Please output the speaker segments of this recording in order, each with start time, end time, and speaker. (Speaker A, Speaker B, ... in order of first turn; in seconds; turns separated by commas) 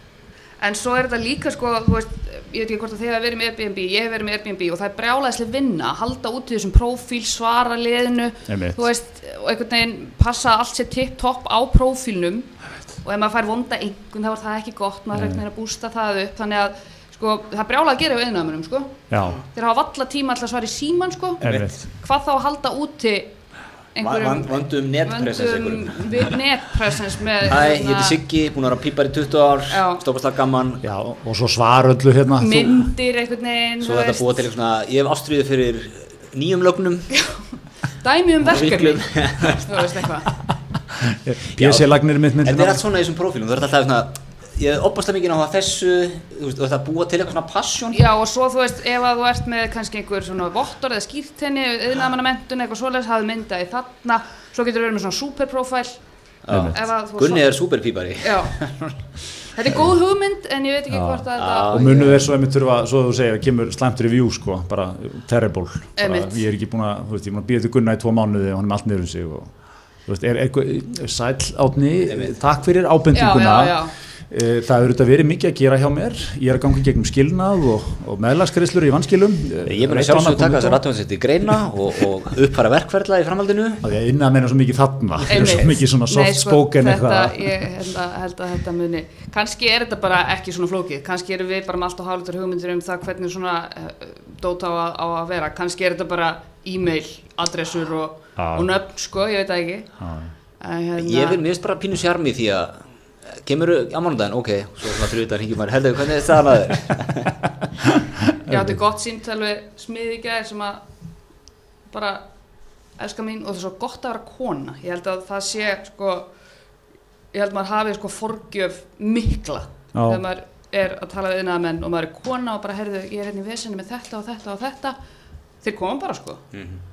Speaker A: 0.6-19.0, Speaker B: 8.5-8.8, Speaker B: 15.1-15.4, Speaker B: 19.1-19.4, Speaker A: 19.5-23.3, Speaker B: 21.4-21.9, Speaker A: 23.9-28.2, Speaker C: 24.0-26.3, Speaker C: 27.4-30.8, Speaker A: 29.7-30.0, Speaker B: 30.8-32.9, Speaker A: 32.4-34.5, Speaker C: 33.8-37.2, Speaker A: 37.1-37.5, Speaker A: 38.0-40.3, Speaker C: 38.4-40.0, Speaker B: 40.9-42.8, Speaker C: 41.5-48.0, Speaker A: 47.9-56.0, Speaker C: 56.5-59.0, Speaker B: 56.5-56.8, Speaker A: 56.6-57.5, Speaker A: 58.2-58.5, Speaker A: 59.5-62.0, Speaker B: 60.9-69.5, Speaker C: 61.4-62.3, Speaker A: 66.0-66.4, Speaker B: 70.1-80.8, Speaker C: 72.1-72.4, Speaker A: 73.1-74.0, Speaker C: 79.7-83.8, Speaker B: 83.8-87.7, Speaker C: 85.3-85.7, Speaker A: 85.3-99.9, Speaker B: 98.4-98.7, Speaker B: 100.0-100.3, Speaker A: 100.6-101.4, Speaker C: 101.0-107.3, Speaker B: 108.5-108.8, Speaker A: 108.5-110.8, Speaker A: 111.9-112.2, Speaker A: 113.0-116.3, Speaker A: 117.3-125.0, Speaker B: 119.9-120.2, Speaker A: 125.6-126.4, Speaker C: 126.5-126.8